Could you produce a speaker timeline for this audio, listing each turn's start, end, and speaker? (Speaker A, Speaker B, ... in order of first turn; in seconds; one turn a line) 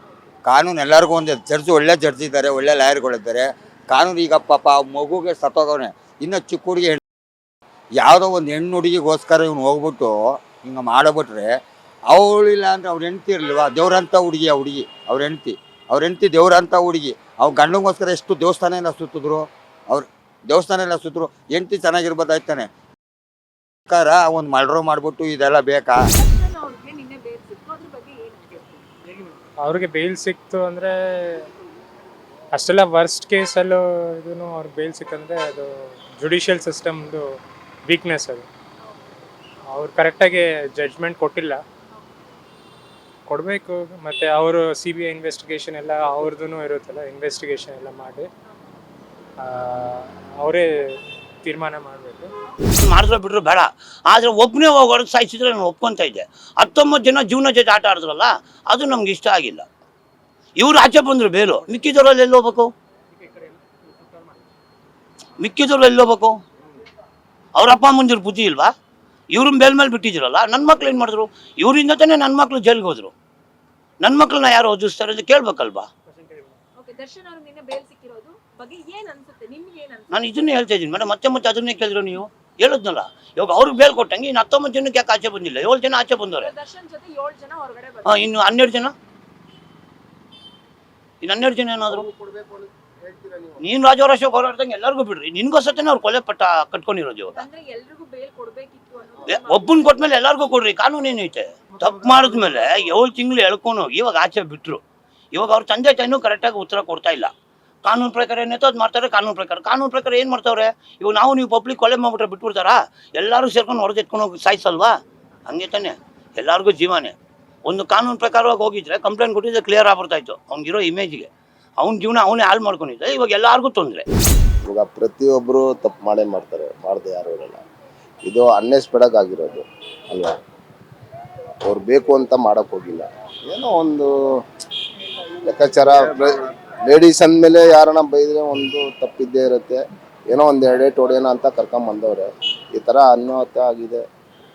Speaker A: 0.5-7.0
Speaker A: 8.0-11.5
Speaker A: 12.1-22.7
Speaker A: 23.9-26.0
Speaker B: 26.1-28.9
Speaker C: 29.6-31.5
Speaker C: 32.5-37.3
Speaker C: 37.9-38.5
Speaker B: 38.8-39.1
Speaker C: 39.7-41.6
Speaker C: 43.3-48.3
Speaker C: 49.4-50.7
Speaker C: 51.4-52.3
Speaker D: 52.8-59.7
Speaker D: 60.6-62.7
Speaker D: 65.4-66.4
Speaker D: 67.6-68.7
Speaker D: 69.3-73.1
Speaker D: 74.0-75.9
Speaker B: 76.8-80.5
Speaker D: 80.1-86.5
Speaker B: 86.4-88.2
Speaker D: 88.0-88.9
Speaker D: 91.2-92.1
Speaker E: 91.9-93.5
Speaker D: 93.6-97.5
Speaker B: 97.3-100.0
Speaker D: 99.2-104.8
Speaker D: 105.3-107.3
Speaker D: 107.8-114.9
Speaker D: 115.5-121.3
Speaker D: 121.8-124.0
Speaker E: 124.7-127.6
Speaker E: 128.3-130.3
Speaker E: 131.7-134.1
Speaker E: 135.4-144.0